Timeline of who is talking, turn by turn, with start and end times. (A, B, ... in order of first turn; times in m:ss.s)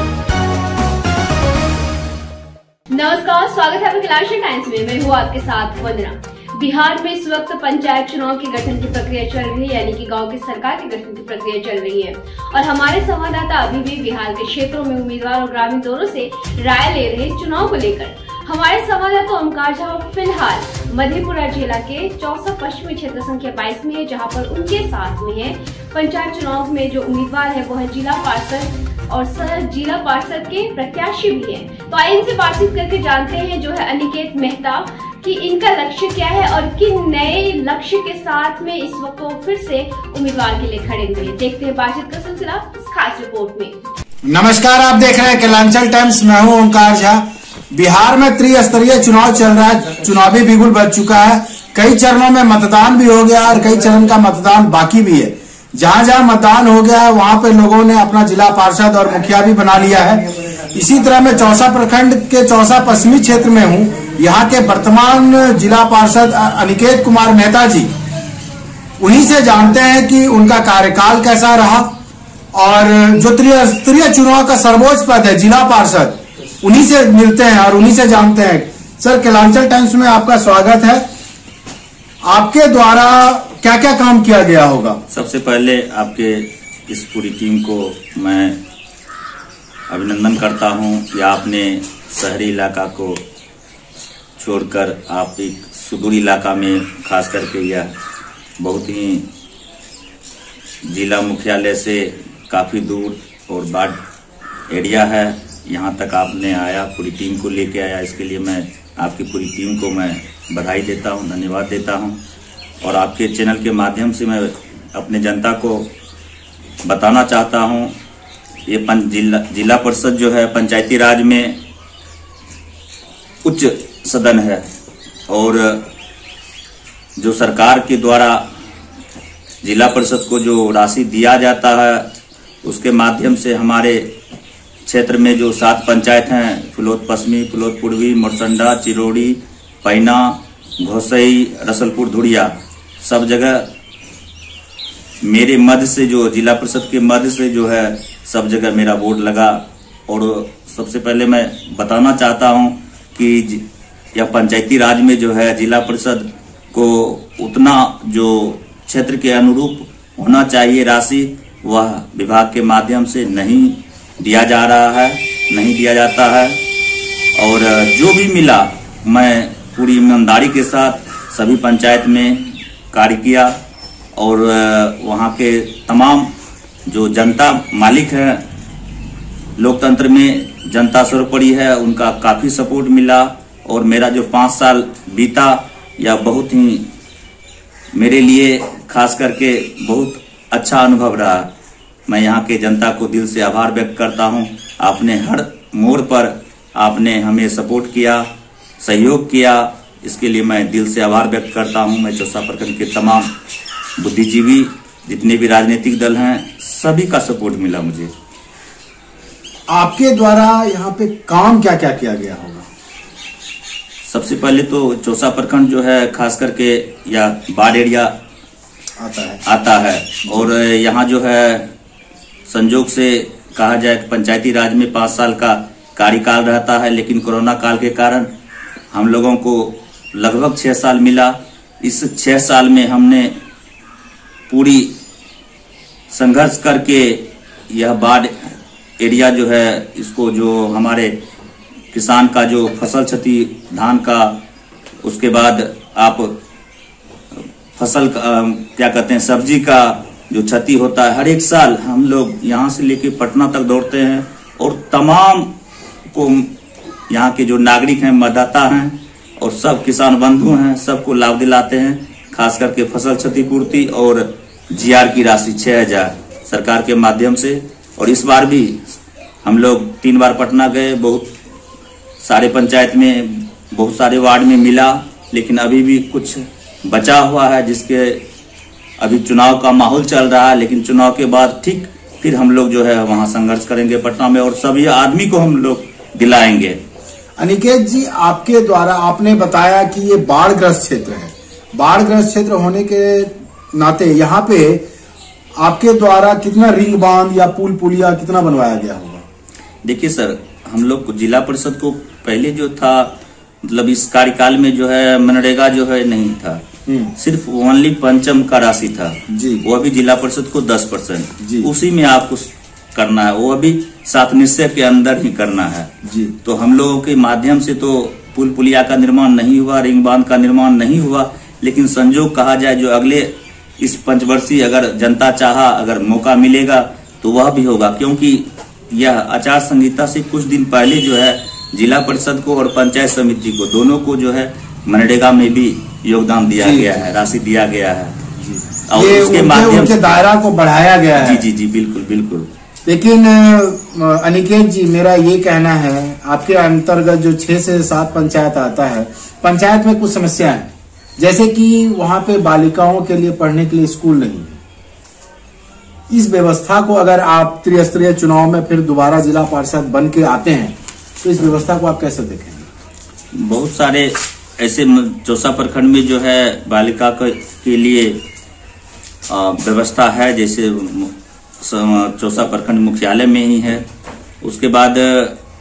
0:02.9-0:43.8 A
0:44.3-1:07.9 B
1:09.0-1:11.9 B
1:12.5-1:21.0 B
1:22.2-1:25.0 B
1:25.1-1:28.6 C
1:29.9-1:33.2 C
1:34.4-1:37.9 C
1:38.6-1:39.2 C
1:40.8-1:44.0 C
1:44.7-1:52.2 C
1:52.8-1:55.9 C
1:56.8-1:57.9 C
1:58.7-2:01.6 C
2:03.4-2:04.7 C
2:05.3-2:05.8 C
2:07.2-2:08.4 C
2:09.6-2:12.1 C
2:12.6-2:14.1 C
2:14.8-2:23.6 C
2:25.2-2:33.6 C
2:34.1-2:46.6 C
2:47.4-2:53.6 C
2:54.2-2:56.3 C
2:56.9-2:58.4 C
2:59.6-3:06.8 C
3:07.9-3:11.5 C
3:12.1-3:18.3 C
3:18.8-3:23.3 C
3:24.0-3:28.1 C
3:29.7-3:32.7 B
3:34.0-3:38.1 C
3:39.0-3:39.4 B
3:39.4-3:41.7 C
3:42.5-3:48.3 C
3:48.9-3:53.3 C
3:54.5-3:54.9 C
3:56.1-4:01.2 C
4:01.9-4:04.4 C
4:05.0-4:06.3 C
4:07.8-4:15.5 C
4:16.1-4:16.5 C
4:17.1-4:31.3 C
4:32.2-4:38.2 C
4:39.0-4:46.8 C
4:47.4-4:54.8 B
4:55.6-4:59.2 B
4:59.8-5:06.6 C
5:06.9-5:07.1 B
5:07.2-5:15.9 C
5:09.3-5:09.6 B
5:11.4-5:11.7 B
5:16.0-5:16.3 B
5:16.4-5:38.2 C
5:36.6-5:37.1 B
5:38.4-5:41.5 B
5:38.9-5:40.2 C
5:41.2-5:42.5 C
5:42.8-5:54.6 B
5:56.1-6:02.7 B
6:03.3-6:08.2 C
6:09.3-6:13.8 C
6:14.4-6:15.4 C